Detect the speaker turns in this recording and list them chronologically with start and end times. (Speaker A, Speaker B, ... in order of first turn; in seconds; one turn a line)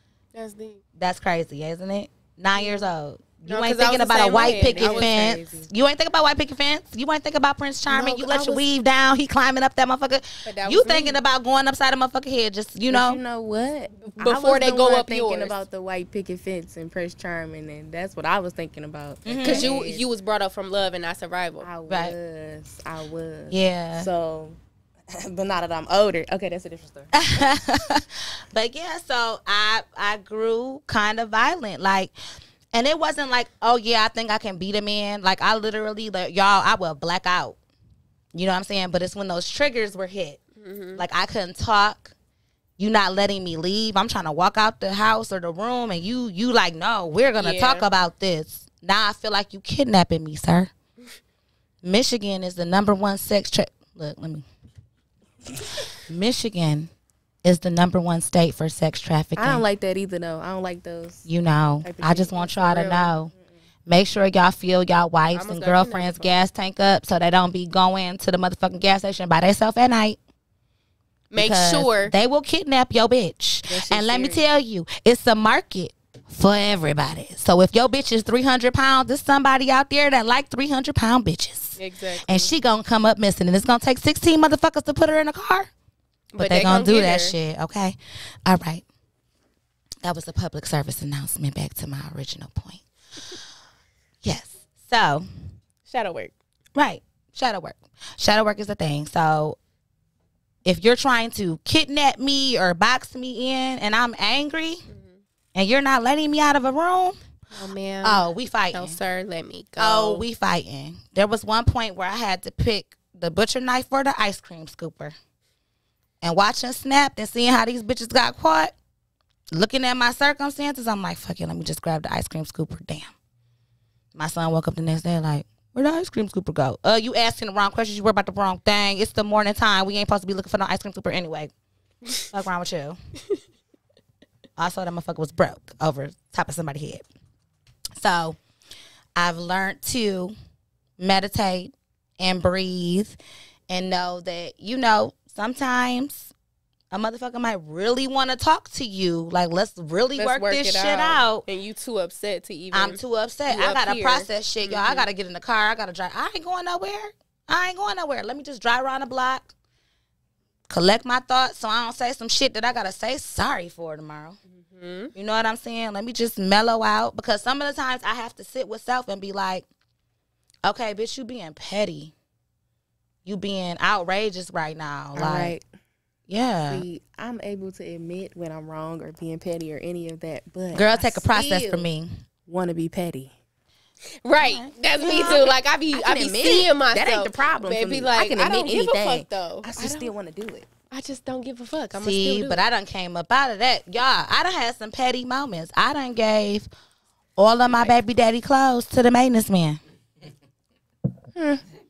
Speaker A: 0.3-0.8
Speaker B: 0.9-13.2
Speaker A: 2.6-2.9
Speaker A: 3.5-5.3
Speaker C: 4.7-5.7
Speaker A: 7.9-8.6
Speaker A: 10.4-11.2
Speaker C: 12.9-20.1
Speaker A: 14.0-15.6
Speaker B: 19.2-19.7
Speaker A: 19.4-21.7
Speaker C: 21.6-24.6
Speaker B: 21.9-22.1
Speaker B: 23.5-24.1
Speaker C: 25.1-27.2
Speaker B: 27.1-32.1
Speaker B: 32.7-37.6
Speaker B: 38.3-40.4
Speaker A: 40.6-41.0
Speaker B: 41.0-42.1
Speaker B: 42.8-50.7
Speaker A: 47.4-47.9
Speaker B: 51.8-54.5
Speaker B: 56.1-56.9
Speaker B: 57.4-59.6
Speaker C: 59.4-61.2
Speaker B: 61.2-63.3
Speaker C: 61.8-63.4
Speaker B: 63.9-70.2
Speaker A: 65.3-66.4
Speaker A: 71.3-72.1
Speaker B: 71.3-85.7
Speaker C: 73.7-74.4
Speaker A: 81.8-82.5
Speaker A: 86.3-87.3
Speaker B: 86.4-88.8
Speaker B: 90.0-92.8
Speaker B: 94.2-95.2
Speaker A: 95.9-96.3
Speaker B: 96.8-99.6
Speaker B: 100.6-104.8
Speaker A: 104.9-105.2
Speaker B: 105.5-107.2
Speaker A: 107.5-110.2
Speaker B: 108.0-109.0
Speaker B: 109.8-115.2
Speaker B: 116.2-118.7
Speaker B: 119.5-123.1
Speaker B: 124.1-131.5
Speaker B: 132.2-133.0
Speaker B: 134.6-137.0
Speaker B: 138.0-138.4
Speaker B: 139.2-140.3
Speaker B: 141.0-143.2
Speaker B: 143.7-146.3
Speaker B: 146.9-151.4
Speaker A: 150.2-155.1
Speaker B: 152.7-159.5
Speaker B: 160.7-164.4
Speaker A: 164.6-165.1
Speaker B: 165.1-169.7
Speaker B: 170.6-172.1
Speaker B: 173.2-175.6
Speaker C: 175.1-175.6
Speaker B: 176.3-176.8
Speaker C: 176.7-181.2
Speaker B: 180.7-182.1
Speaker A: 181.2-181.9
Speaker C: 182.5-183.3
Speaker A: 184.2-190.1
Speaker B: 184.4-185.5
Speaker C: 185.9-190.7
Speaker A: 190.9-192.6
Speaker B: 191.9-196.7
Speaker B: 197.4-199.8
Speaker C: 201.3-201.6